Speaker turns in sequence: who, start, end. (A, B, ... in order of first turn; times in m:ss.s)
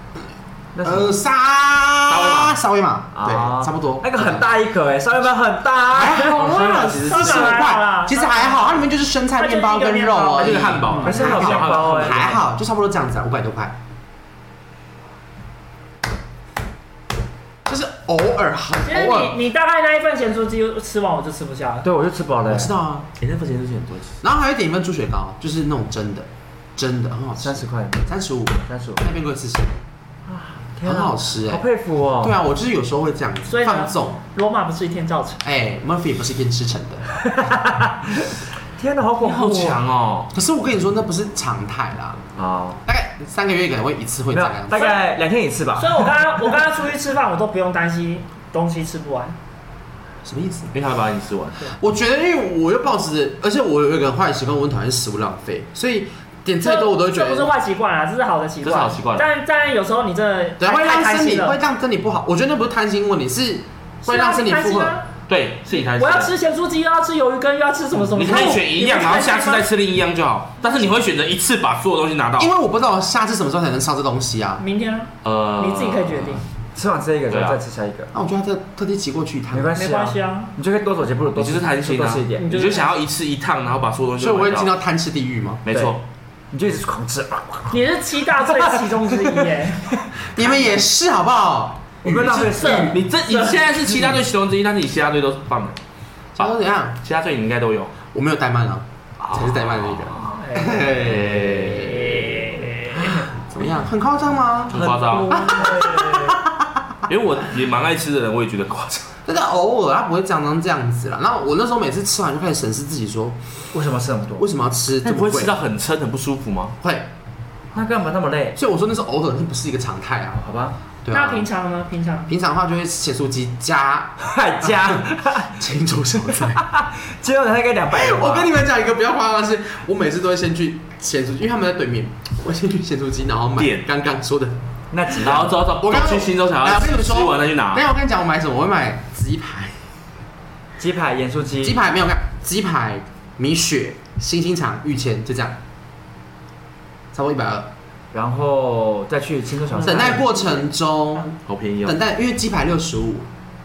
0:00.8-0:01.2 A
0:00.8-0:04.5 B
0:02.1-0:02.6 C
0:03.2-0:06.6 A
0:05.9-0:13.8 B
0:06.4-0:07.6 C
0:06.5-0:08.8 D
0:09.4-0:10.8 D
0:10.4-0:12.3 C
0:10.9-0:12.4 A
0:17.7-0:19.4 B
0:18.8-0:21.9 D
0:21.8-0:22.7 A
0:22.5-0:23.1 B
0:23.2-0:24.2 C
0:24.2-0:29.7 B
0:27.4-0:28.1 A
0:28.7-0:29.1 A
0:30.3-0:32.4 A
0:30.8-0:31.6 B
0:32.2-0:34.2 B
0:33.5-0:35.4 D
0:35.4-0:37.1 B
0:37.2-0:39.8 A
0:39.2-0:40.3 C
0:40.3-0:42.2 B
0:42.4-0:42.8 A
0:42.8-0:45.0 B
0:44.3-0:46.6 A
0:44.7-0:45.1 D
0:45.8-0:49.4 D
0:50.2-0:50.7 B
0:50.7-0:51.7 C
0:51.7-0:57.5 B
0:56.6-1:01.6 D
0:58.6-0:59.3 C
1:00.6-1:05.0 B
1:04.0-1:05.1 D
1:05.3-1:06.3 C
1:05.7-1:09.7 D
1:08.0-1:12.5 C
1:12.4-1:14.6 B
1:14.6-1:16.4 D
1:15.2-1:16.4 C
1:16.7-1:18.1 A
1:17.3-1:17.6 C
1:18.1-1:19.8 B
1:19.5-1:22.5 A
1:19.8-1:20.5 D
1:21.4-1:24.7 C
1:22.4-1:22.9 D
1:24.2-1:25.7 B
1:25.6-1:26.0 C
1:25.7-1:26.0 A
1:26.5-1:29.6 A
1:27.7-1:30.0 D
1:30.2-1:32.5 B
1:32.0-1:34.2 A
1:32.3-1:33.0 D
1:32.5-1:35.8 C
1:36.4-1:37.0 B
1:36.4-1:38.0 C
1:38.1-1:42.3 B
1:39.2-1:42.2 C
1:40.3-1:41.0 D
1:42.0-1:43.2 D
1:43.0-1:47.0 B
1:44.7-1:45.4 C
1:44.8-1:45.4 A
1:45.1-1:46.4 D
1:47.1-1:49.2 C
1:49.3-1:53.4 B
1:53.7-1:54.5 A
1:54.4-1:55.6 B
1:55.0-1:56.8 C
1:56.8-1:57.1 B
1:57.7-1:58.6 A
1:58.6-2:00.4 B
2:00.4-2:00.8 A
2:01.0-2:01.5 B
2:01.1-2:02.3 D
2:02.3-2:06.6 B
2:04.2-2:05.6 A
2:06.4-2:08.5 A
2:07.9-2:14.6 B
2:13.6-2:13.8 C
2:14.9-2:15.6 A
2:15.1-2:17.8 C
2:15.8-2:19.8 B
2:20.8-2:21.8 A
2:21.6-2:25.6 B
2:27.1-2:27.7 B
2:28.1-2:30.5 A
2:29.7-2:30.1 C
2:29.8-2:33.3 B
2:31.5-2:32.0 C